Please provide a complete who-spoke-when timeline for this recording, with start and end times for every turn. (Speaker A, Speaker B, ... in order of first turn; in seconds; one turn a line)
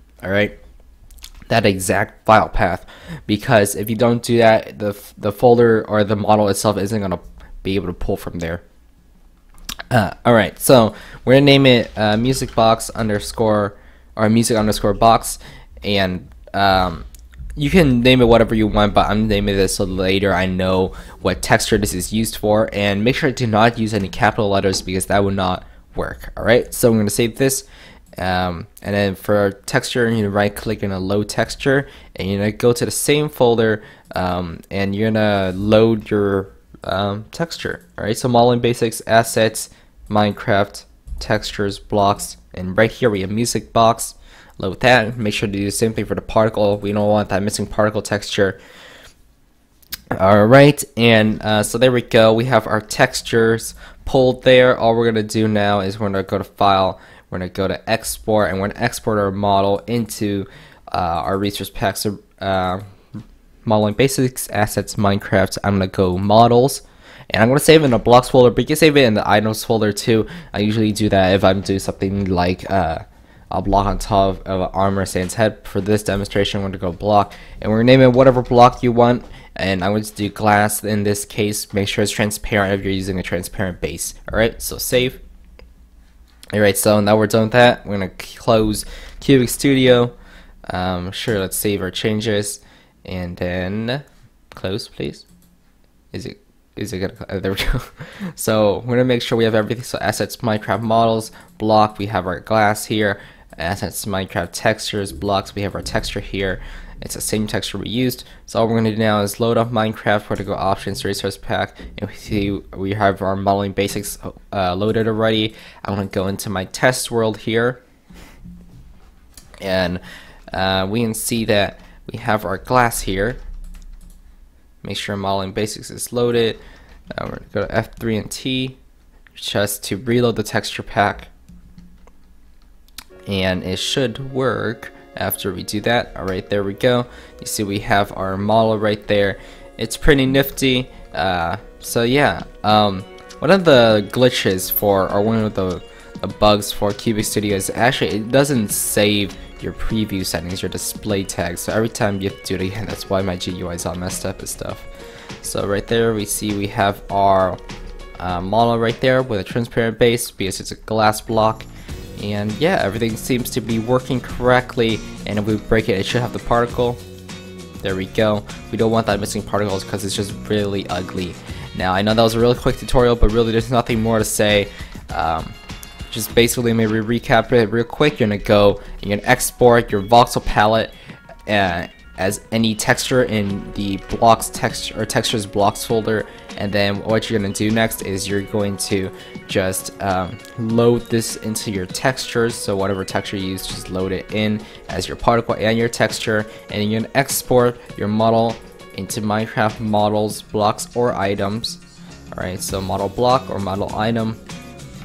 Speaker A: 0.2-0.6
Speaker A: 1.5-8.6
Speaker A: 9.9-27.7
Speaker A: 28.2-48.6
Speaker A: 50.1-62.9
Speaker A: 63.6-85.2
Speaker A: 86.5-90.1
Speaker A: 90.7-95.3
Speaker A: 96.1-117.8
Speaker A: 119.6-123.4
Speaker A: 124.8-126.6
Speaker A: 127.1-128.8
Speaker A: 129.3-131.3
Speaker A: 133.3-154.9
Speaker A: 155.4-157.6
Speaker A: 158.2-167.0
Speaker A: 167.8-175.6
Speaker A: 176.1-180.9
Speaker A: 181.5-201.8
Speaker A: 202.3-204.4